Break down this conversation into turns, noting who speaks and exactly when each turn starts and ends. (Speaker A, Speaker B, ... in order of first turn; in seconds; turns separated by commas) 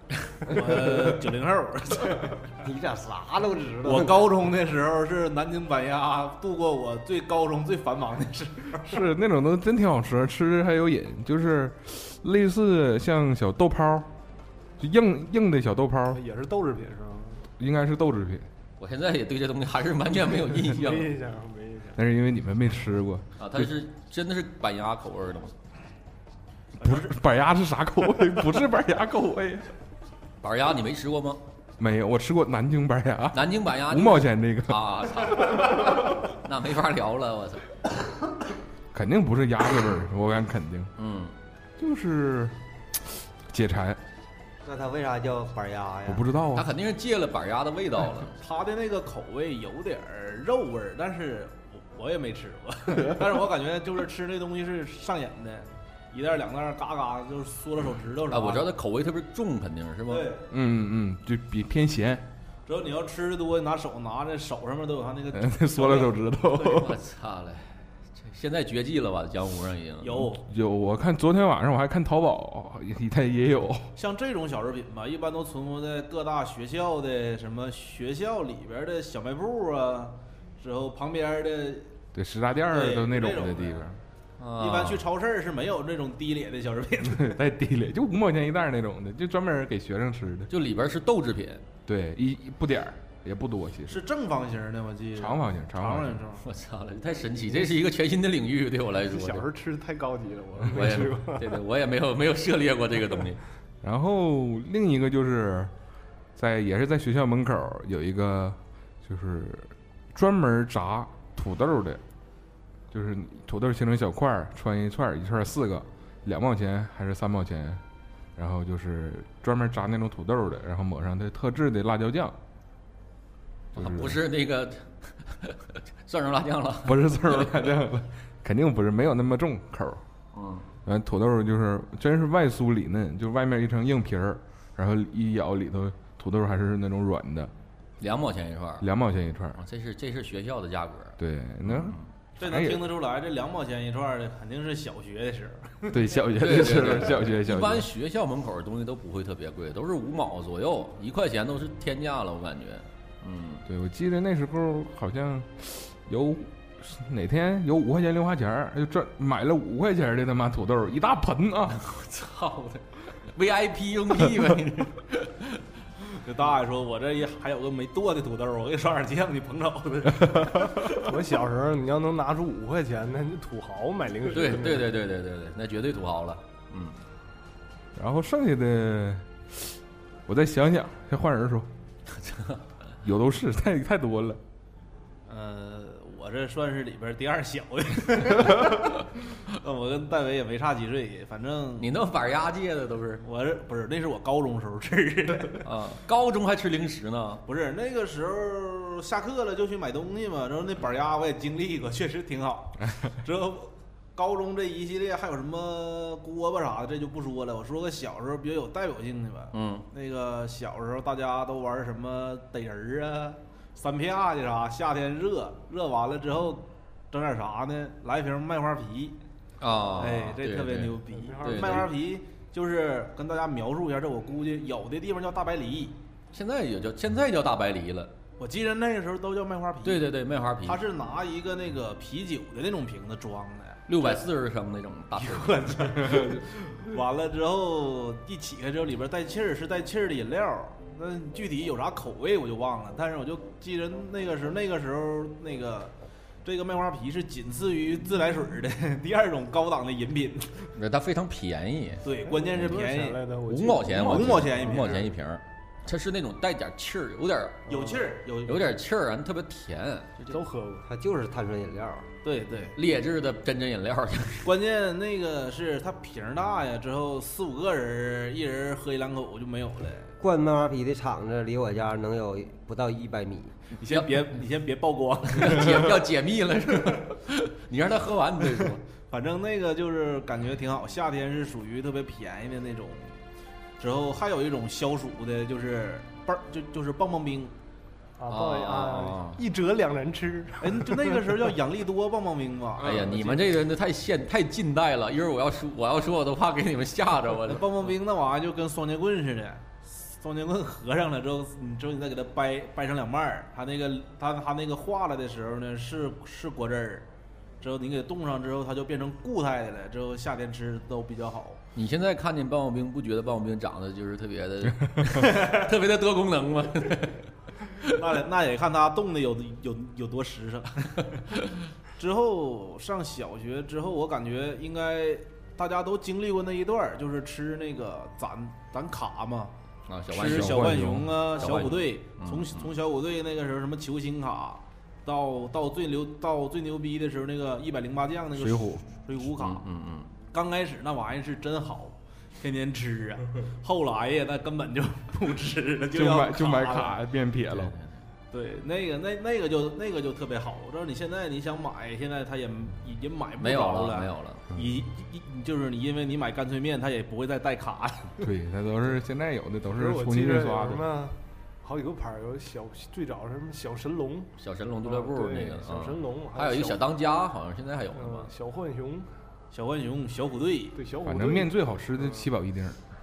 Speaker A: 0.4-1.2, Speaker B: 0.5-2.4, Speaker A: 2.6-4.3, Speaker B: 3.8-9.0, Speaker C: 8.8-14.1, Speaker C: 14.8-16.2, Speaker D: 16.1-17.4, Speaker C: 17.6-18.5, Speaker E: 18.8-21.1, Speaker D: 20.5-22.0, Speaker C: 21.9-23.7, Speaker E: 23.4-25.5, Speaker C: 26.8-29.7, Speaker E: 30.4-31.4, Speaker C: 31.8-34.8, Speaker E: 33.3-37.7, Speaker C: 38.9-40.9, Speaker E: 41.0-41.3, Speaker C: 41.8-44.0, Speaker A: 44.6-46.2, Speaker C: 46.0-46.7, Speaker E: 46.5-48.4, Speaker B: 48.4-58.7, Speaker E: 58.3-60.3, Speaker B: 60.1-60.5, Speaker C: 60.5-62.2, Speaker B: 62.6-66.2, Speaker C: 65.3-67.0, Speaker E: 66.6-70.3, Speaker B: 70.0-70.4, Speaker C: 70.4-73.9, Speaker B: 74.0-81.9, Speaker C: 82.1-84.0, Speaker B: 82.7-83.8, Speaker E: 84.4-85.0, Speaker B: 84.6-87.4, Speaker C: 87.0-90.5, Speaker E: 90.5-91.7, Speaker C: 91.8-94.0, Speaker B: 93.9-96.4, Speaker C: 95.2-96.2, Speaker E: 96.4-99.5, Speaker D: 97.6-97.9, Speaker D: 99.0-101.6, Speaker E: 100.7-103.4, Speaker C: 103.8-105.7, Speaker C: 106.3-112.0, Speaker C: 112.9-117.8, Speaker C: 118.3-122.3, Speaker C: 123.7-124.2, Speaker E: 123.8-127.7, Speaker C: 126.8-130.0, Speaker E: 130.3-130.7, Speaker C: 130.8-137.5, Speaker E: 138.0-138.9, Speaker C: 138.8-139.6, Speaker E: 139.5-142.1, Speaker C: 141.2-142.9, Speaker B: 142.4-146.1, Speaker C: 145.9-147.9, Speaker E: 146.4-153.6, Speaker C: 153.7-161.8, Speaker E: 161.7-165.6, Speaker B: 166.0-171.0, Speaker D: 170.9-174.9, Speaker E: 174.3-177.0, Speaker C: 177.9-181.7, Speaker E: 182.1-182.6, Speaker C: 183.0-184.4, Speaker B: 185.3-191.9, Speaker E: 191.8-193.2, Speaker B: 193.2-195.7, Speaker E: 195.6-197.4, Speaker B: 197.4-219.2, Speaker E: 209.5-209.9, Speaker E: 219.6-221.9, Speaker B: 220.0-226.0, Speaker D: 221.1-221.9, Speaker E: 226.3-228.1, Speaker B: 228.4-230.1, Speaker E: 229.8-230.8, Speaker B: 230.6-234.2, Speaker E: 233.9-235.9, Speaker B: 235.2-245.9, Speaker B: 246.4-250.7, Speaker E: 250.8-252.8, Speaker B: 252.0-253.3, Speaker D: 252.2-255.0, Speaker E: 253.5-257.7, Speaker B: 253.9-255.1, Speaker B: 257.7-258.7, Speaker D: 257.7-258.0, Speaker E: 258.4-260.4, Speaker D: 260.3-260.9, Speaker A: 260.9-262.1, Speaker B: 262.2-262.8, Speaker E: 262.7-264.5, Speaker B: 264.4-270.1, Speaker A: 270.2-273.6, Speaker B: 273.7-276.0, Speaker E: 275.3-278.8, Speaker B: 279.1-283.1, Speaker B: 283.8-287.5, Speaker D: 288.2-291.5, Speaker E: 288.3-289.4, Speaker B: 290.6-293.6, Speaker E: 292.8-297.6, Speaker B: 297.4-307.1, Speaker B: 307.6-311.6, Speaker E: 311.7-317.9, Speaker B: 315.2-315.7, Speaker B: 317.9-321.4, Speaker B: 321.9-329.5, Speaker E: 329.9-330.7, Speaker B: 330.1-339.6, Speaker C: 330.2-331.1, Speaker E: 331.3-332.7, Speaker C: 338.3-338.9, Speaker E: 339.4-340.1, Speaker B: 340.3-347.0, Speaker C: 345.9-347.7, Speaker E: 347.5-348.0, Speaker B: 348.3-358.2, Speaker E: 353.4-354.4, Speaker C: 358.2-360.8, Speaker D: 359.7-364.3, Speaker E: 364.4-368.3, Speaker D: 364.8-366.9, Speaker D: 367.9-369.1, Speaker B: 369.5-370.8, Speaker D: 370.8-372.3, Speaker C: 371.0-372.8